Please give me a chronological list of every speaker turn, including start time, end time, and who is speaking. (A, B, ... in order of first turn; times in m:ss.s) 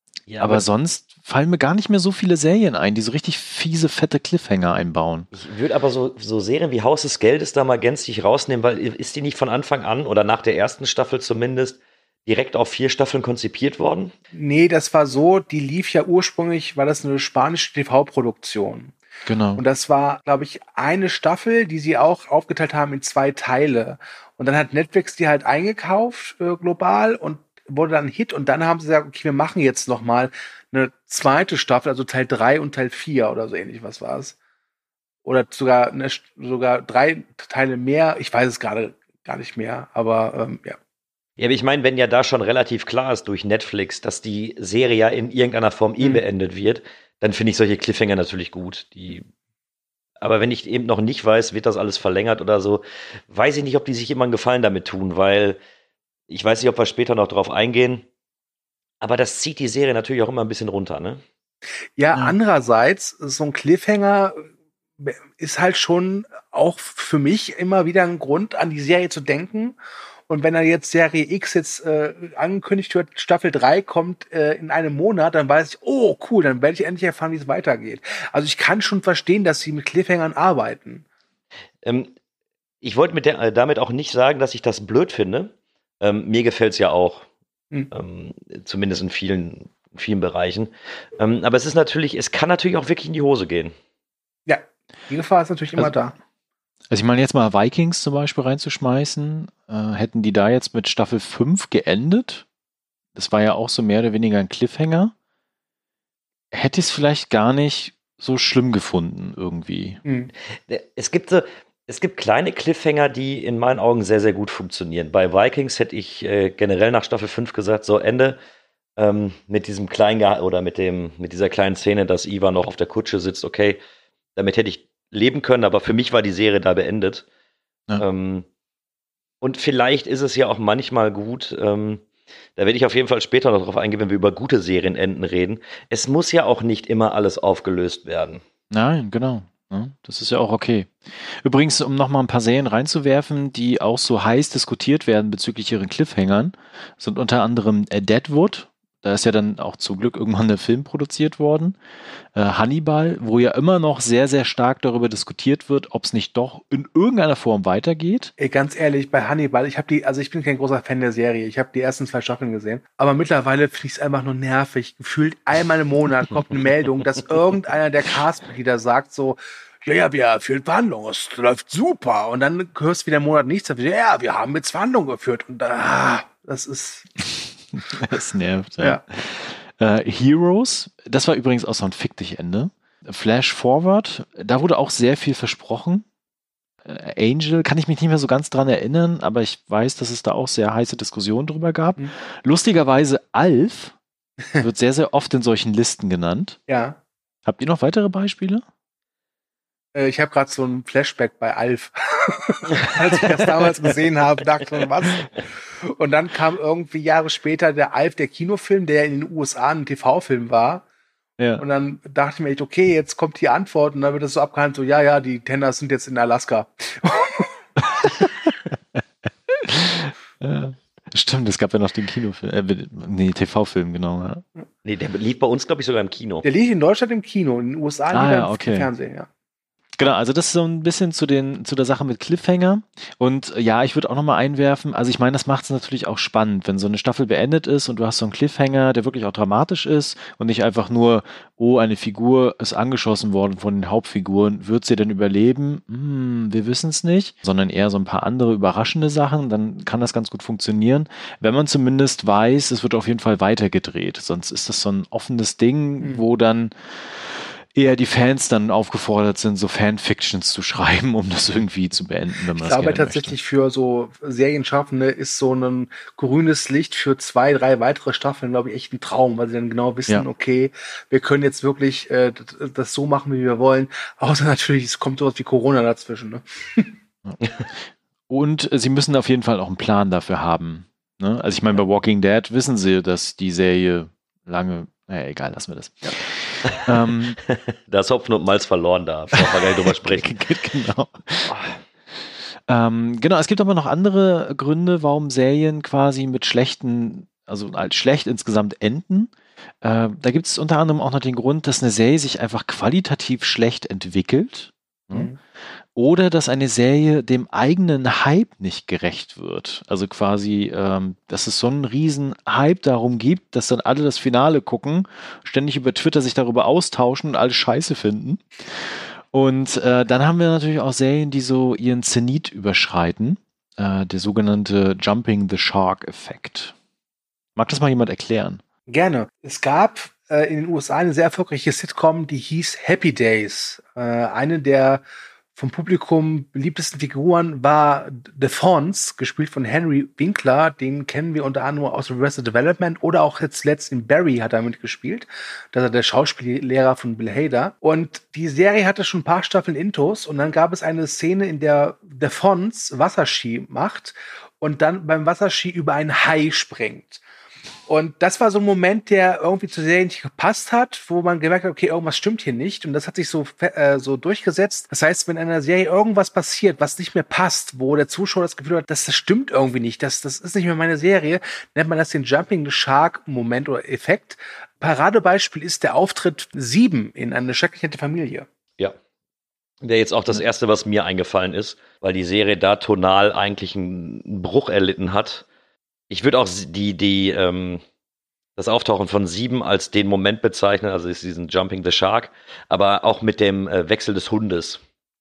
0:00.3-0:00.6 A
0:00.4-0:05.3 B
0:05.3-0:14.1 A
0:14.3-0:19.0 C
0:19.2-0:19.6 B
0:19.6-0:34.4 C
0:35.2-0:40.8 C
0:41.4-0:49.3 A
0:50.2-0:55.6 A
0:56.3-0:58.0 A
0:59.0-1:01.2 A
1:02.0-1:04.4 C
1:05.0-1:09.8 C
1:10.3-1:21.0 C
1:21.8-1:22.1 A
1:22.8-1:27.2 A
1:27.9-1:33.7 A
1:34.4-1:36.2 C
1:36.9-1:42.4 B
1:43.1-1:45.1 B
1:46.5-1:50.0 B
1:50.0-1:50.3 C
1:50.7-1:58.4 A
1:59.0-2:03.8 A
2:04.4-2:07.2 A
2:08.0-2:08.4 A
2:09.4-2:12.0 A
2:12.6-2:18.4 A
2:18.7-2:31.8 B
2:32.3-2:38.3 B
2:38.4-2:57.1 C
2:57.8-3:06.0 B
3:06.8-3:13.9 B
3:14.6-3:16.6 B
3:16.7-3:17.0 C
3:17.4-3:18.6 B
3:19.9-3:25.3 C
3:25.8-3:30.8 C
3:31.4-3:31.6 B
3:31.6-3:37.6 C
3:37.8-3:38.3 B
3:38.9-3:44.4 B
3:44.8-3:46.4 A
3:46.4-3:49.3 C
3:48.1-3:48.9 B
3:50.0-4:23.4 B
4:22.6-4:36.9 C
4:38.3-4:47.4 B
4:47.5-4:50.3 A
4:49.3-4:51.5 B
4:51.5-4:51.8 A
4:52.7-5:05.3 B
5:05.1-5:05.4 C
5:05.9-5:26.7 B
5:27.6-5:28.6 B
5:28.9-5:35.0 C
5:35.5-5:57.2 C
5:57.9-6:18.5 C
6:19.8-6:25.4 A
6:26.1-6:27.8 A
6:28.6-6:34.8 A